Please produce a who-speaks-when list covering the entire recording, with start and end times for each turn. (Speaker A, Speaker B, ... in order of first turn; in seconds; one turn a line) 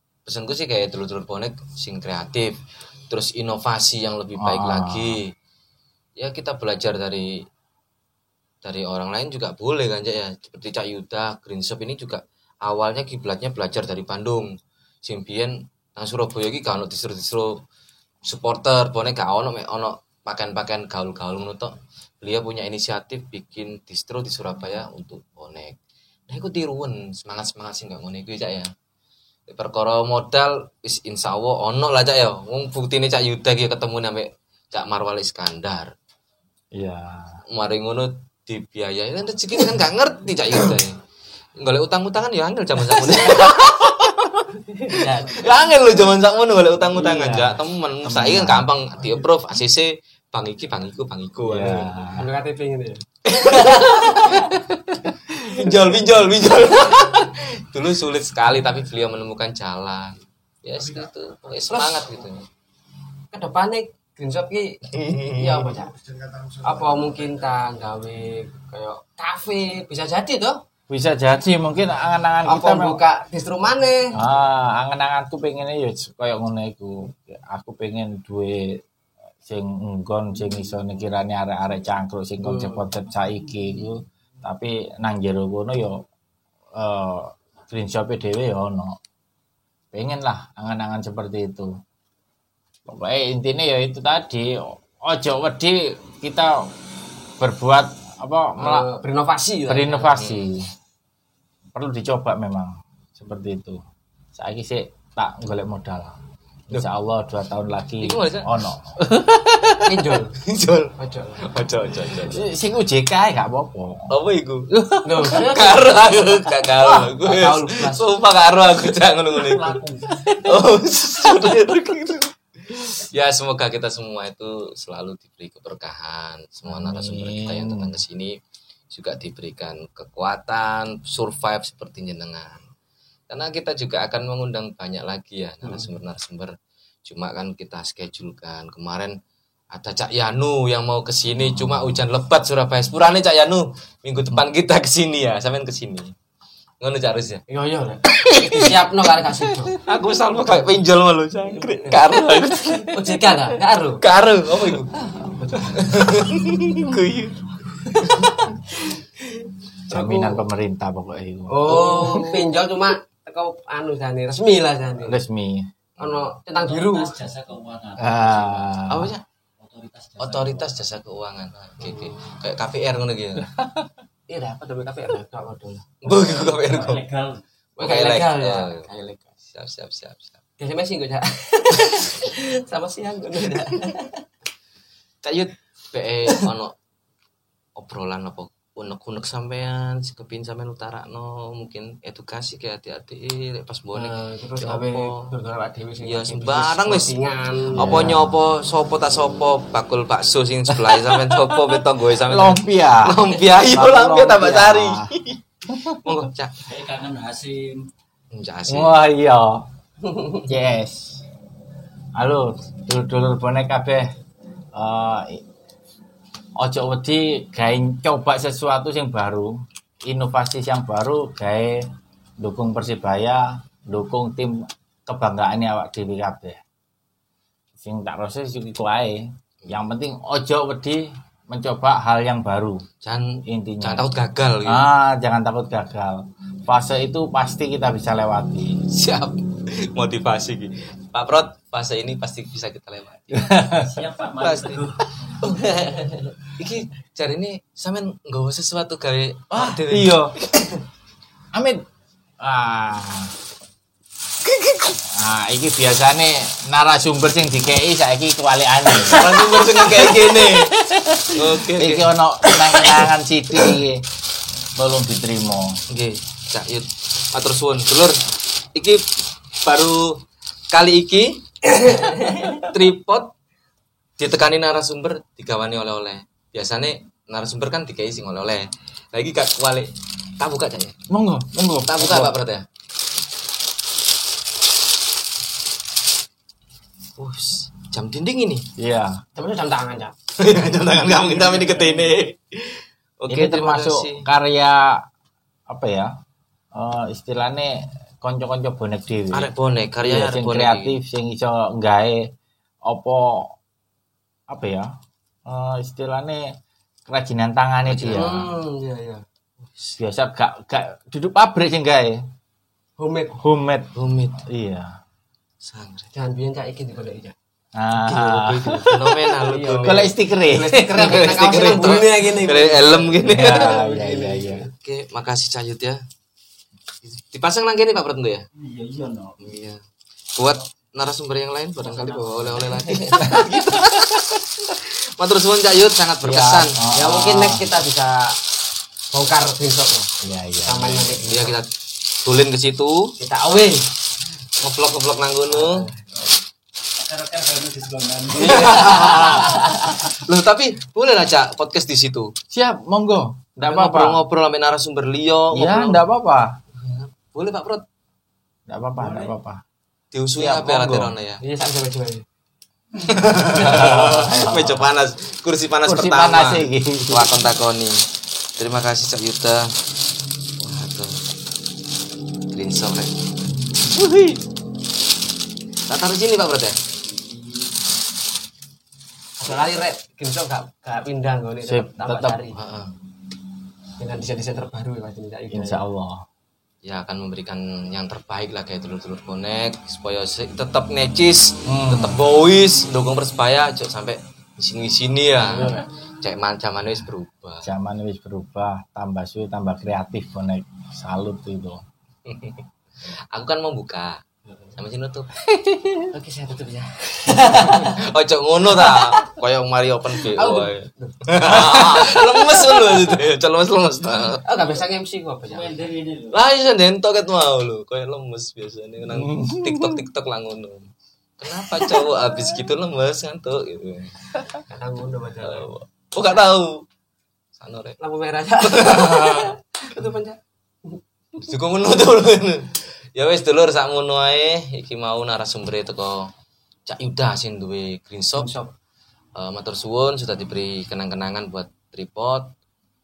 Speaker A: 0.2-5.3
Speaker B: 4.4-5.2
Speaker A: 6.2-7.4
Speaker A: 8.6-14.5
Speaker A: 15.0-17.6
Speaker A: 18.2-25.8
Speaker A: 26.3-28.7
Speaker A: 29.5-35.9
Speaker B: 36.7-37.4
Speaker A: 37.5-41.0
Speaker A: 41.6-51.9
Speaker C: 44.7-45.4
Speaker B: 47.0-48.7
Speaker B: 51.4-52.2
Speaker C: 52.1-54.4
Speaker A: 53.2-62.4
Speaker C: 61.8-62.0
Speaker C: 63.3-64.8
Speaker A: 64.9-65.7
Speaker C: 65.3-66.0
Speaker C: 66.6-70.6
Speaker B: 70.9-73.0
Speaker C: 72.5-74.2
Speaker B: 74.1-78.8
Speaker B: 79.5-86.0
Speaker C: 82.4-82.8
Speaker B: 86.7-89.0
Speaker B: 89.9-91.7
Speaker B: 92.8-96.7
Speaker B: 97.4-98.9
Speaker C: 98.6-100.2
Speaker B: 99.7-100.7
Speaker A: 100.1-100.5
Speaker B: 101.7-103.8
Speaker B: 104.3-106.2
Speaker B: 106.7-109.8
Speaker A: 108.0-108.5
Speaker C: 109.8-110.3
Speaker A: 110.3-112.4
Speaker C: 111.0-111.4
Speaker B: 112.2-114.1
Speaker A: 114.1-114.7
Speaker B: 114.7-115.3
Speaker C: 115.0-118.0
Speaker A: 115.2-128.3
Speaker D: 119.5-120.5
Speaker B: 126.7-127.9
Speaker A: 128.9-132.6
Speaker A: 133.3-136.5
Speaker A: 137.0-139.2
Speaker A: 139.7-146.1
Speaker A: 146.8-147.4
Speaker C: 147.5-149.8
Speaker A: 148.1-148.8
Speaker A: 149.7-153.3
Speaker C: 151.6-154.0
Speaker A: 154.0-154.9
Speaker C: 154.9-156.0
Speaker A: 155.6-158.3
Speaker C: 157.9-160.4
Speaker B: 159.9-162.3
Speaker C: 161.5-165.2
Speaker A: 161.7-162.4
Speaker B: 165.0-165.7
Speaker C: 166.0-167.2
Speaker A: 166.0-166.3
Speaker D: 166.5-168.8
Speaker B: 168.0-169.1
Speaker A: 168.9-169.2
Speaker D: 169.6-170.8
Speaker A: 170.2-173.5
Speaker C: 171.8-172.1
Speaker C: 174.3-176.0
Speaker A: 176.0-177.0
Speaker D: 176.1-177.4
Speaker A: 177.8-178.8
Speaker C: 177.8-179.3
Speaker A: 179.5-180.4
Speaker C: 180.6-184.2
Speaker A: 185.2-186.7
Speaker A: 187.8-195.2
Speaker C: 193.9-197.9
Speaker A: 196.0-197.2
Speaker A: 197.7-206.7
Speaker B: 197.8-198.4
Speaker B: 201.1-201.5
Speaker B: 202.2-205.1
Speaker B: 205.7-206.2
Speaker D: 206.7-207.9
Speaker A: 208.3-209.0
Speaker B: 208.7-209.7
Speaker C: 210.0-210.4
Speaker B: 210.5-211.2
Speaker B: 212.1-214.1
Speaker B: 214.7-215.4
Speaker B: 216.6-221.8
Speaker B: 222.4-226.6
Speaker B: 227.8-232.8
Speaker A: 233.0-234.8
Speaker B: 233.4-234.0
Speaker B: 234.6-238.8
Speaker A: 238.9-243.6
Speaker B: 243.3-244.0
Speaker D: 243.7-246.2
Speaker A: 244.4-244.9
Speaker A: 245.4-250.2
Speaker B: 249.5-250.3
Speaker B: 251.5-251.8
Speaker B: 252.4-253.3
Speaker A: 254.6-254.9
Speaker B: 255.1-264.0
Speaker A: 258.9-262.9
Speaker B: 264.8-265.8
Speaker A: 265.9-268.2
Speaker A: 268.7-269.0
Speaker A: 269.6-270.2
Speaker A: 270.7-273.3
Speaker C: 272.1-272.5
Speaker A: 274.2-280.9
Speaker B: 281.1-282.4
Speaker A: 281.9-282.6
Speaker A: 287.2-288.6
Speaker B: 288.8-289.2
Speaker C: 289.4-290.1
Speaker A: 290.4-294.3
Speaker C: 290.9-292.0
Speaker B: 293.3-295.0
Speaker B: 295.7-296.1
Speaker B: 296.7-299.5
Speaker A: 299.3-301.0
Speaker B: 300.0-302.3
Speaker B: 302.8-303.5
Speaker B: 304.5-304.9
Speaker B: 305.4-306.5
Speaker B: 307.1-308.5
Speaker A: 307.9-308.3
Speaker C: 308.1-309.2
Speaker B: 309.9-312.2
Speaker C: 313.0-313.4
Speaker B: 313.4-315.0
Speaker A: 313.9-314.4
Speaker A: 315.6-316.1
Speaker C: 316.1-317.3
Speaker B: 317.7-319.1
Speaker C: 318.1-324.7
Speaker A: 318.1-320.1
Speaker B: 319.8-321.2
Speaker A: 320.9-323.8
Speaker B: 323.2-324.7
Speaker A: 324.7-326.0
Speaker A: 327.0-328.4
Speaker D: 328.5-329.4
Speaker A: 329.4-329.8
Speaker A: 330.3-336.8
Speaker D: 331.8-333.4
Speaker B: 336.2-337.6
Speaker C: 336.9-338.4
Speaker C: 339.1-340.1
Speaker B: 340.2-341.2
Speaker C: 340.6-341.5
Speaker A: 341.2-343.1
Speaker C: 343.2-343.9
Speaker A: 344.6-345.9
Speaker C: 345.5-346.0
Speaker D: 346.9-349.8
Speaker A: 348.4-352.3
Speaker B: 348.8-349.6
Speaker B: 352.5-354.2
Speaker A: 353.6-356.0
Speaker B: 355.5-356.6
Speaker A: 356.8-357.8
Speaker B: 358.7-359.6
Speaker D: 359.0-359.3
Speaker A: 360.1-361.4
Speaker B: 360.4-361.1
Speaker C: 361.4-362.2
Speaker A: 363.0-368.0
Speaker B: 363.6-364.9
Speaker B: 365.8-367.4
Speaker A: 368.6-369.7
Speaker A: 370.6-371.1
Speaker A: 372.5-373.2
Speaker A: 373.8-374.4
Speaker A: 375.9-376.8
Speaker C: 379.4-382.6
Speaker B: 381.6-382.4
Speaker A: 382.6-382.9
Speaker C: 384.0-385.8
Speaker B: 385.5-386.2
Speaker A: 386.8-397.7
Speaker B: 391.6-392.2
Speaker B: 395.4-395.8
Speaker B: 397.6-401.8
Speaker A: 402.2-404.2
Speaker A: 404.8-405.3
Speaker B: 405.5-406.1
Speaker C: 406.1-408.0
Speaker A: 407.3-414.4
Speaker C: 408.8-409.1
Speaker C: 410.2-412.6
Speaker C: 414.4-415.8
Speaker D: 415.5-416.4
Speaker A: 416.3-424.1
Speaker B: 419.1-420.0
Speaker C: 424.6-425.7
Speaker A: 425.4-426.9
Speaker A: 427.6-428.0
Speaker C: 428.0-431.0
Speaker A: 428.6-429.6
Speaker A: 431.4-436.3
Speaker A: 436.9-438.5
Speaker C: 438.4-438.7
Speaker A: 439.4-442.5